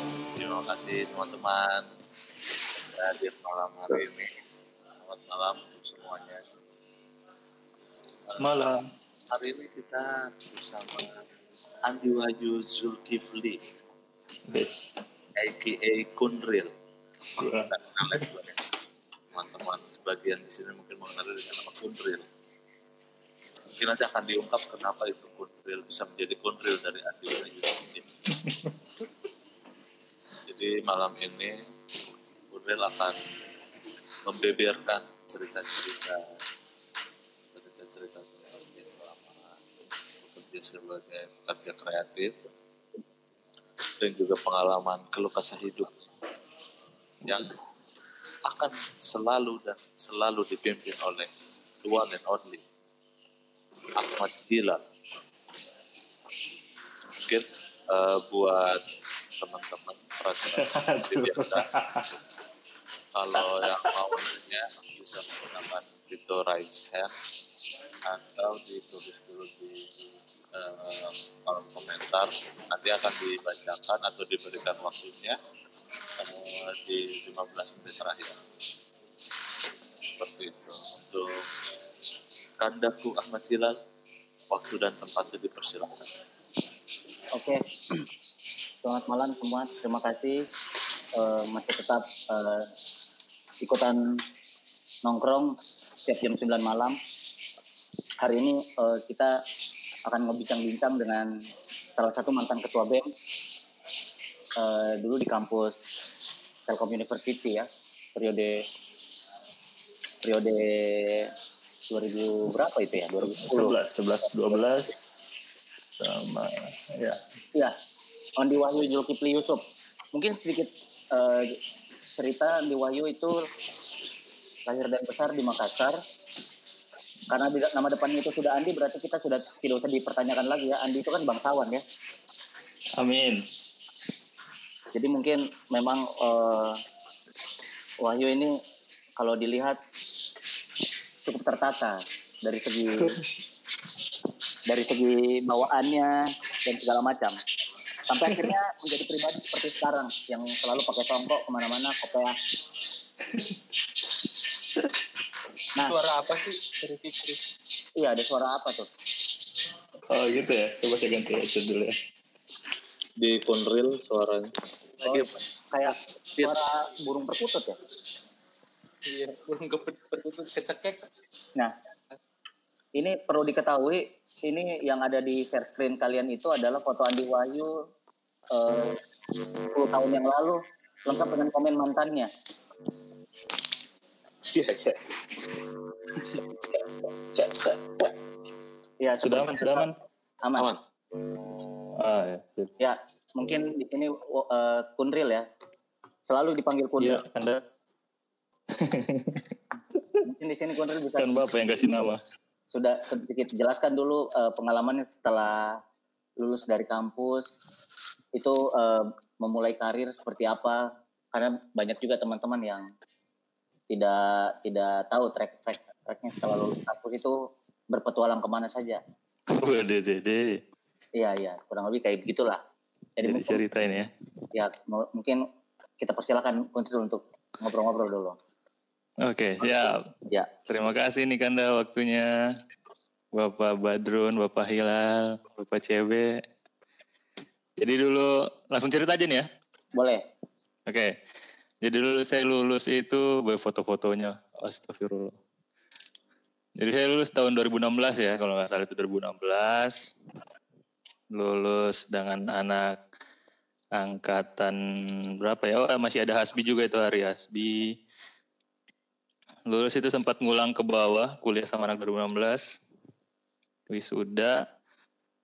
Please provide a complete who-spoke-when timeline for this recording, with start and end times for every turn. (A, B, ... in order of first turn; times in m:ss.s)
0:00.4-0:01.9 A
0:02.9-0:04.3 A
0:05.0-0:06.4 A
0:08.3-0:08.8 A
0:08.4-0:08.8 B
0:09.3-0:11.2 A
0:11.9-0:13.6 A
0:14.5-0:15.0 B
0:15.4-0:16.7 A
0:17.4-0:18.6 A
0:17.4-0:18.3 B
0:19.3-0:22.3 A
0:23.8-0:28.1 A
0:28.5-0:28.7 B
0:30.5-0:31.6 A
0:32.5-0:33.2 A
0:34.3-0:36.2 A
0:37.5-0:39.6 A
0:40.2-0:42.4 A
0:44.0-0:46.1 A
0:47.2-0:47.6 A
0:48.5-0:51.3 A
0:51.8-0:52.6 A
0:54.0-0:54.8 A
0:57.1-0:58.8 A
0:59.4-1:01.7 A
1:00.6-1:02.1 B
1:03.2-1:07.1 A
1:08.1-1:09.9 A
1:10.5-1:15.4 A
1:16.2-1:18.4 A
1:20.2-1:21.5 A
1:22.6-1:23.8 A
1:24.5-1:26.1 A
1:27.4-1:27.6 C
1:28.8-1:30.4 C
1:31.2-1:32.7 C
1:33.6-1:34.2 C
1:35.0-1:37.0 C
1:38.2-1:39.4 C
1:40.1-1:41.3 C
1:42.0-1:43.1 C
1:44.6-1:45.8 C
1:46.7-1:48.6 C
1:50.2-1:51.3 C
1:51.9-1:53.8 C
1:53.2-1:55.0 B
1:56.0-1:57.2 B
1:58.4-1:59.6 C
2:00.1-2:01.6 C
2:02.2-2:03.5 C
2:04.7-2:06.0 C
2:07.3-2:11.8 C
2:13.0-2:13.4 B
2:14.9-2:16.8 C
2:18.0-2:18.6 C
2:19.2-2:19.8 C
2:21.3-2:23.2 C
2:24.7-2:27.4 C
2:28.1-2:32.4 C
2:35.8-2:37.4 D
2:38.0-2:38.9 C
2:40.1-2:42.0 B
2:43.2-2:45.4 A
2:45.0-2:47.8 C
2:49.1-2:51.1 D
2:53.0-2:57.7 C
2:58.5-2:59.0 C
2:59.7-3:02.3 C
3:04.5-3:05.0 A
3:09.0-3:09.9 C
3:09.2-3:09.9 B
3:10.4-3:10.7 C
3:12.0-3:12.7 B
3:12.8-3:15.5 C
3:16.3-3:17.2 C
3:17.0-3:17.6 B
3:18.8-3:19.4 B
3:20.2-3:21.9 C
3:21.2-3:22.2 B
3:22.7-3:25.8 C
3:26.4-3:27.5 C
3:28.4-3:30.8 C
3:31.3-3:32.9 C
3:33.9-3:37.4 C
3:37.9-3:39.0 C
3:39.6-3:40.6 B
3:41.2-3:42.6 C
3:43.2-3:44.0 C
3:43.2-3:44.1 B
3:44.5-3:45.4 C
3:46.0-3:48.4 C
3:49.2-3:50.0 B
3:50.7-3:52.3 B
3:53.3-3:56.3 B
3:57.8-3:59.5 B
3:59.9-4:00.2 C
4:00.9-4:01.1 B
4:01.8-4:05.4 B
4:06.8-4:10.0 B
4:11.3-4:12.9 B
4:14.0-4:14.8 B
4:15.4-4:17.9 B
4:19.7-4:22.8 B
4:23.9-4:24.6 B